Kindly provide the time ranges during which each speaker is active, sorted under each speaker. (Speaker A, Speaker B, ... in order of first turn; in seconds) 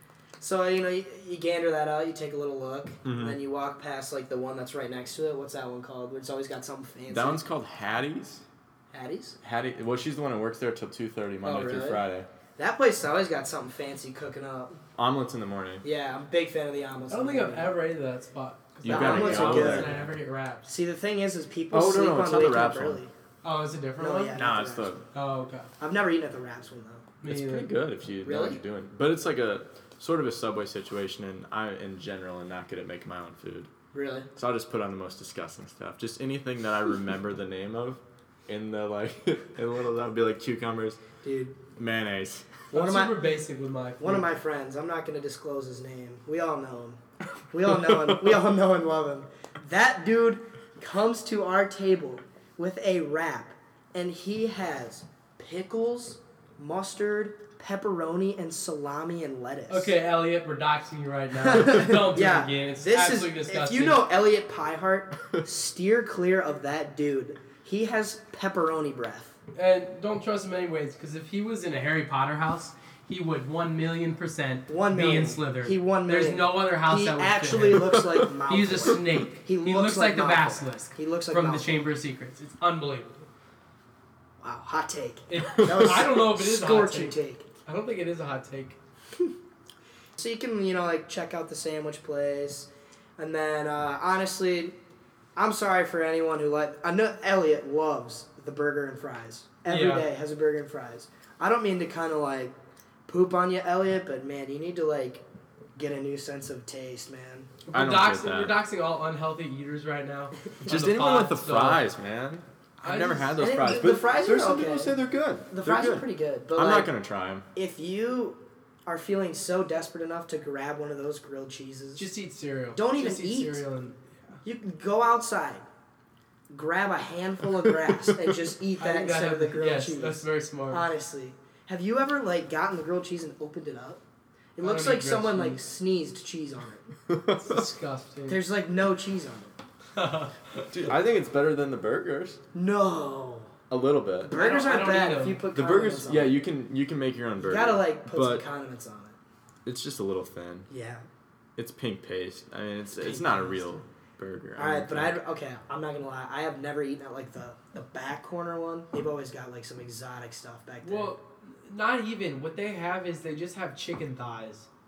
Speaker A: 0.4-7.4, 8.9-9.3, 11.4-12.0, 12.6-14.8, 15.8-17.7, 18.8-19.9, 20.6-23.1, 24.0-25.0, 25.8-27.1, 28.2-28.6, 33.9-34.3, 41.2-41.6, 42.7-43.2, 44.0-47.0, 47.5-59.9, 61.4-69.3, 74.7-81.7, 84.4-87.5, 90.2-94.8, 95.3-102.5, 103.1-105.2, 105.8-107.5, 113.4-114.9, 115.5-116.9, 117.5-122.0, 122.7-123.6, 124.4-125.6, 126.5-134.0, 134.6-136.9, 138.3-139.6, 142.5-143.5, 144.2-146.4, 147.4-149.2, 150.7-151.1, 152.9-153.8, 154.6-161.1
Speaker B: 3.0-3.4, 7.1-8.4, 9.4-12.3, 15.0-15.8, 18.8-20.1, 21.7-23.0, 24.3-25.0, 27.2-33.7, 34.4-41.0, 41.7-42.5, 47.8-48.2, 77.6-78.3, 85.5-86.0, 107.7-108.5, 110.6-117.5, 137.1-137.7, 140.7-142.4, 143.7-144.3, 145.5-148.4, 149.7-150.7, 151.6-155.2
Speaker C: 17.1-20.7, 23.4-24.4, 25.1-25.7, 27.2-27.7, 42.7-44.3, 59.7-64.0, 69.5-83.3, 85.3-88.8, 99.7-100.1, 107.7-111.8, 112.8-113.3, 122.0-124.4, 128.8-130.8, 134.6-135.6, 137.3-138.4, 139.9-140.7, 144.3-145.4, 160.8-164.7